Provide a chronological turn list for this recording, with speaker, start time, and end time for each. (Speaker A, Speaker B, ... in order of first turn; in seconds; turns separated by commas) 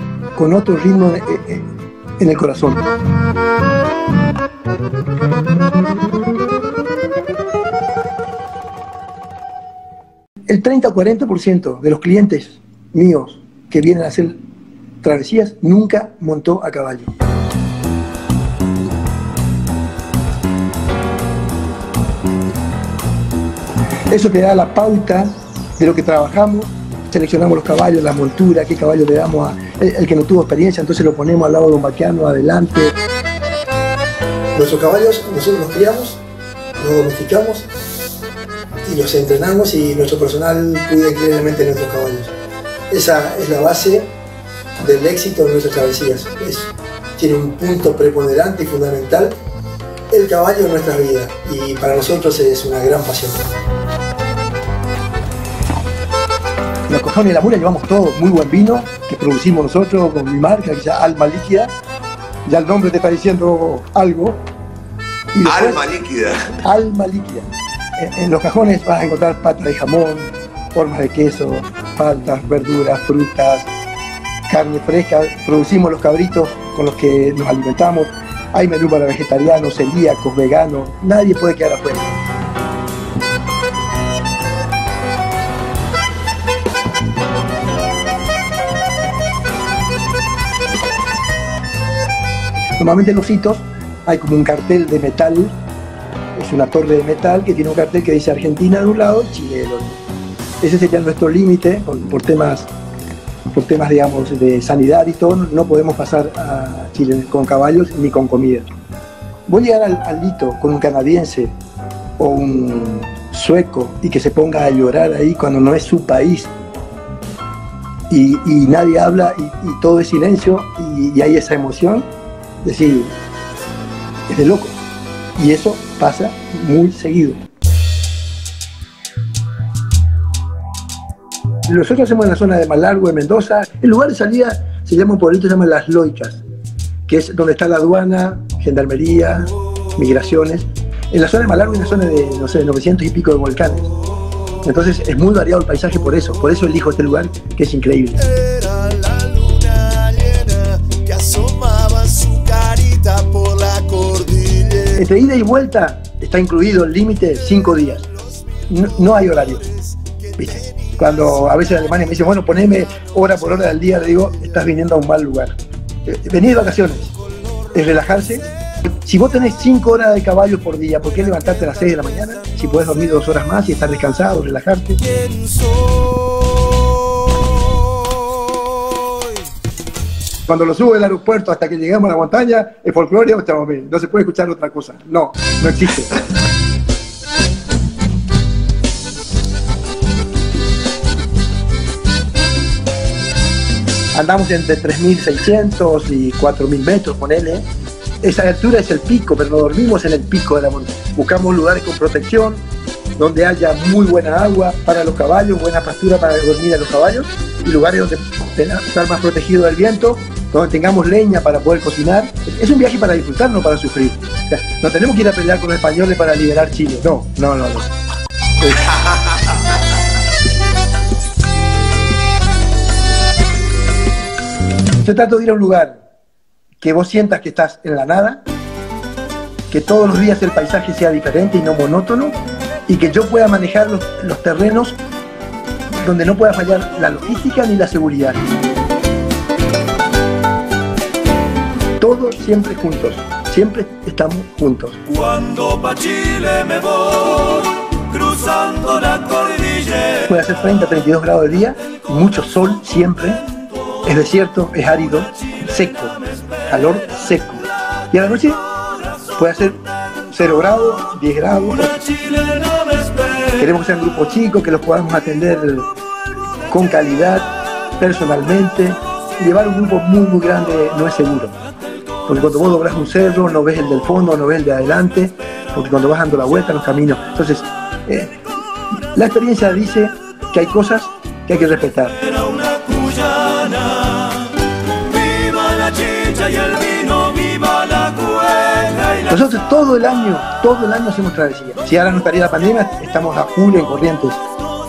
Speaker A: 0.3-1.7, Speaker A: 2.2-2.9, Speaker A: 10.5-14.4, Speaker A: 15.0-17.1, Speaker A: 24.1-33.0, Speaker A: 34.5-36.2, Speaker A: 36.8-37.7, Speaker A: 38.8-42.3, Speaker A: 42.9-44.1, Speaker A: 44.8-49.4, Speaker A: 50.1-53.5, Speaker A: 56.9-61.7, Speaker A: 62.5-64.5, Speaker A: 65.3-65.9, Speaker B: 65.4-66.5, Speaker A: 66.6-67.5, Speaker A: 68.0-73.7, Speaker A: 74.5-82.1, Speaker A: 92.8-95.5, Speaker A: 96.3-100.0, Speaker A: 100.6-102.7, Speaker A: 103.5-108.7, Speaker A: 109.5-111.5, Speaker A: 112.2-116.5, Speaker A: 118.1-122.1, Speaker A: 122.6-123.2, Speaker A: 124.3-124.8, Speaker A: 125.4-127.4, Speaker A: 131.7-136.4, Speaker A: 137.1-143.9, Speaker A: 144.6-148.2, Speaker B: 148.5-154.8, Speaker A: 154.9-158.1, Speaker A: 158.7-159.7, Speaker A: 160.4-167.1, Speaker A: 167.7-168.5, Speaker A: 169.0-175.0, Speaker A: 180.5-186.1, Speaker A: 194.1-197.7, Speaker A: 198.2-202.6, Speaker A: 203.2-217.9, Speaker B: 218.6-219.6, Speaker A: 225.0-226.0, Speaker A: 226.8-228.4, Speaker A: 229.7-235.0, Speaker A: 236.0-238.4, Speaker A: 242.0-245.0, Speaker C: 245.4-249.8, Speaker A: 250.2-253.4, Speaker A: 254.0-258.6, Speaker A: 259.4-262.2, Speaker A: 263.5-265.9, Speaker A: 266.7-271.6, Speaker A: 272.3-278.4, Speaker A: 279.1-282.2, Speaker C: 283.3-284.0, Speaker C: 285.4-288.9, Speaker A: 289.2-294.4